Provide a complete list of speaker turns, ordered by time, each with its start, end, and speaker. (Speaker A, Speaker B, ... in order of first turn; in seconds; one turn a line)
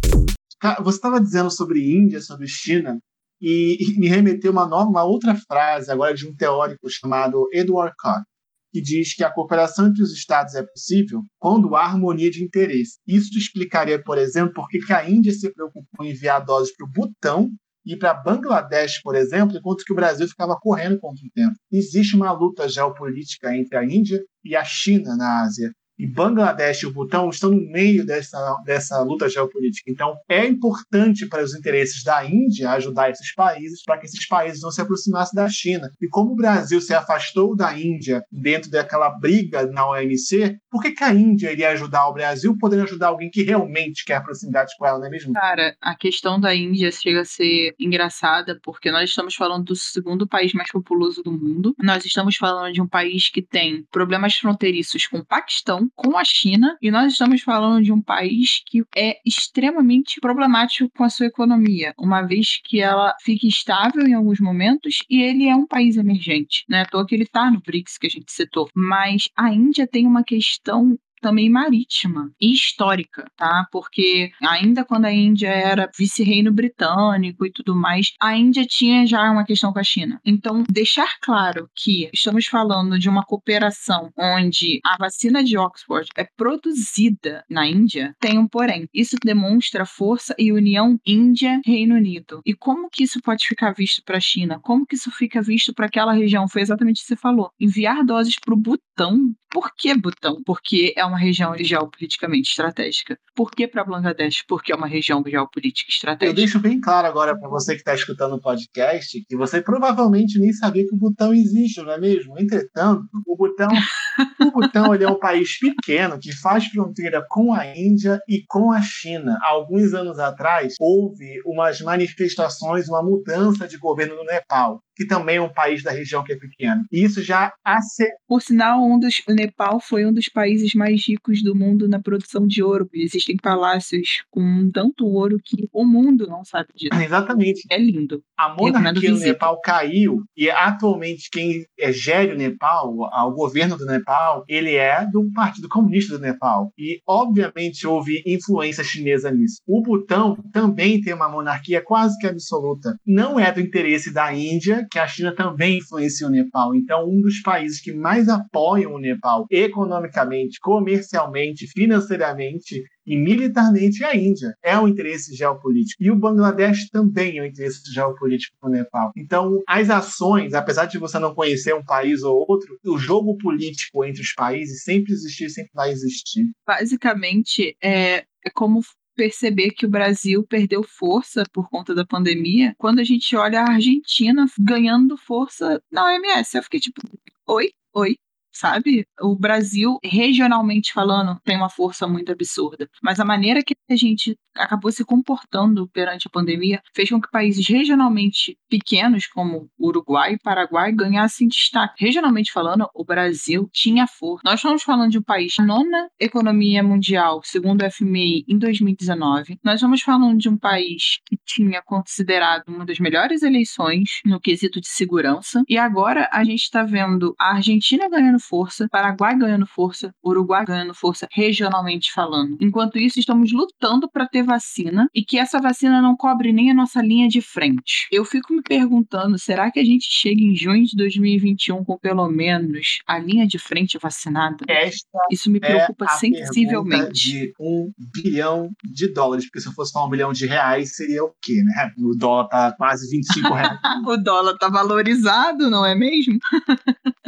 Speaker A: 0.6-45.3
Speaker B: 45.3-106.5
Speaker A: 106.2-128.2
Speaker B: 128.3-137.0
Speaker A: 136.9-137.7
Speaker B: 137.7-139.5
Speaker A: 138.4-176.5
Speaker B: 176.7-237.3
Speaker A: 234.7-244.0
Speaker B: 243.4-247.1